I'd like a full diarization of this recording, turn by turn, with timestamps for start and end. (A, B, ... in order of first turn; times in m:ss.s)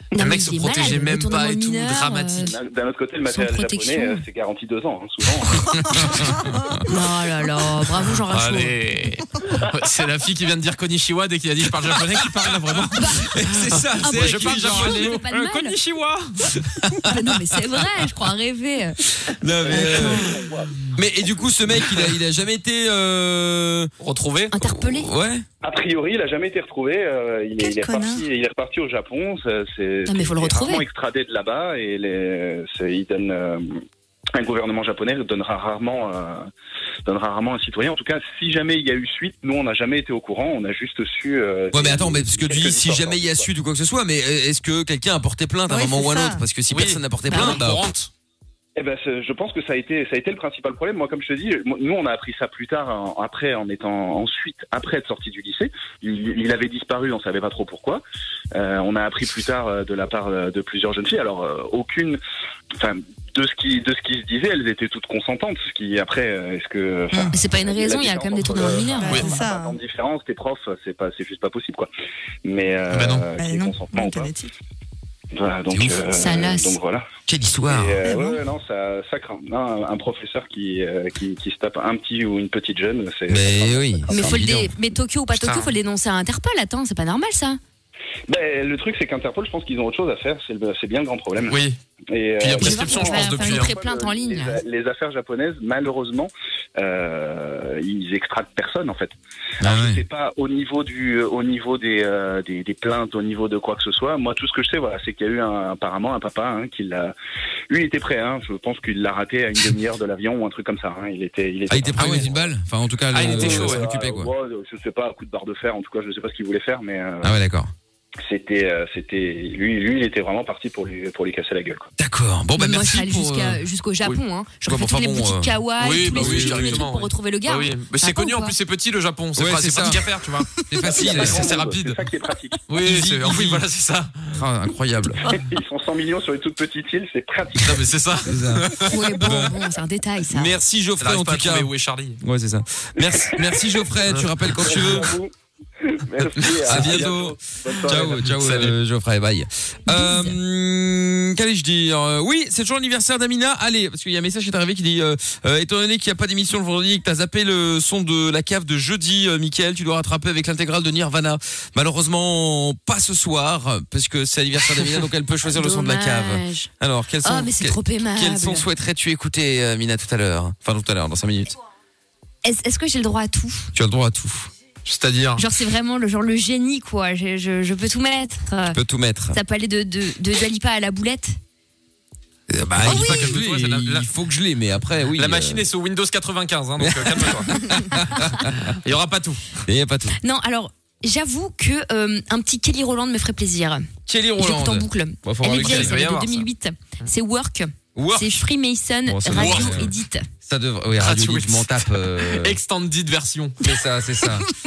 0:00.1-0:02.6 A
0:00.2-0:02.6 B
0:02.4-0:06.3 C
0:03.3-0:04.2 A
0:05.7-0:06.8 D
0:06.1-0:06.8 E
0:06.9-0:08.8 A
0:08.3-0:16.4 B
0:12.2-0:15.2 D
0:13.0-0:13.3 A
0:14.0-0:15.8 A
0:16.6-0:17.5 D
0:17.0-0:19.0 A
0:19.2-0:20.3 D
0:19.6-0:20.8 C
0:21.0-0:23.9 D
0:24.0-0:24.5 B
0:24.5-0:25.1 A
0:24.6-0:25.5 D
0:25.6-0:33.8 C
0:27.6-0:28.3 E
0:30.1-0:30.8 A
0:34.4-0:36.5 C
0:37.1-0:43.5 C
0:41.7-0:47.9 D
0:45.7-0:46.4 E
0:46.7-0:48.1 B
0:48.8-0:58.0 C
0:58.5-1:02.2 C
1:02.8-1:11.9 C
1:07.3-1:09.4 A
1:08.8-1:09.8 E
1:12.4-1:14.3 C
1:12.9-1:13.2 B
1:13.4-1:14.5 E
1:15.3-1:17.1 C
1:15.7-1:16.0 D
1:16.1-1:16.8 A
1:17.3-1:18.0 D
1:17.7-1:24.4 C
1:18.1-1:18.4 E
1:23.3-1:24.7 D
1:24.1-1:27.6 A
1:25.4-1:25.7 B
1:28.3-1:47.1 C
1:31.5-1:31.8 B
1:32.4-1:33.7 B
1:32.6-1:34.6 A
1:39.6-1:40.0 D
1:47.7-1:52.5 C
1:51.7-1:54.3 D
1:52.0-1:52.3 B
1:53.1-1:53.8 B
1:53.2-1:57.3 C
1:57.2-1:57.7 D
1:58.2-2:01.9 C
2:02.0-2:03.6 D
2:02.6-2:08.5 A
2:04.7-2:05.5 D
2:05.8-2:12.0 B
2:06.1-2:06.9 D
2:09.4-2:10.0 D
2:10.6-2:11.4 D
2:10.8-2:12.6 C
2:12.7-2:14.4 B
2:12.8-2:13.6 D
2:14.3-2:15.4 D
2:15.2-2:18.0 C
2:17.6-2:19.3 B
2:18.2-2:19.6 D
2:18.9-2:20.6 A
2:20.3-2:21.7 D
2:21.0-2:22.2 B
2:22.2-2:25.2 D
2:23.0-2:23.6 C
2:24.1-2:24.9 B
2:24.6-2:28.3 C
2:26.4-2:51.6 D
2:26.7-2:27.1 B
2:28.3-2:28.8 B
2:29.9-2:30.4 A
2:45.5-2:46.7 A
2:47.2-2:48.7 A
2:52.4-2:53.7 A
2:53.7-2:54.5 D
2:54.8-2:55.4 B
2:55.4-2:58.8 A
2:58.7-2:59.4 D
2:59.3-3:01.4 A
3:02.5-3:05.7 D
3:02.8-3:04.1 B
3:02.9-3:03.2 A
3:05.2-3:07.5 B
3:06.8-3:08.8 D
3:08.6-3:09.6 B
3:09.7-3:10.2 D
3:10.2-3:20.3 A
3:14.1-3:16.0 D
3:15.5-3:16.5 B
3:18.0-3:18.4 D
3:19.0-3:19.9 D
3:19.3-3:19.9 B
3:20.4-3:22.6 D
3:21.0-3:23.6 B
3:23.6-3:24.5 D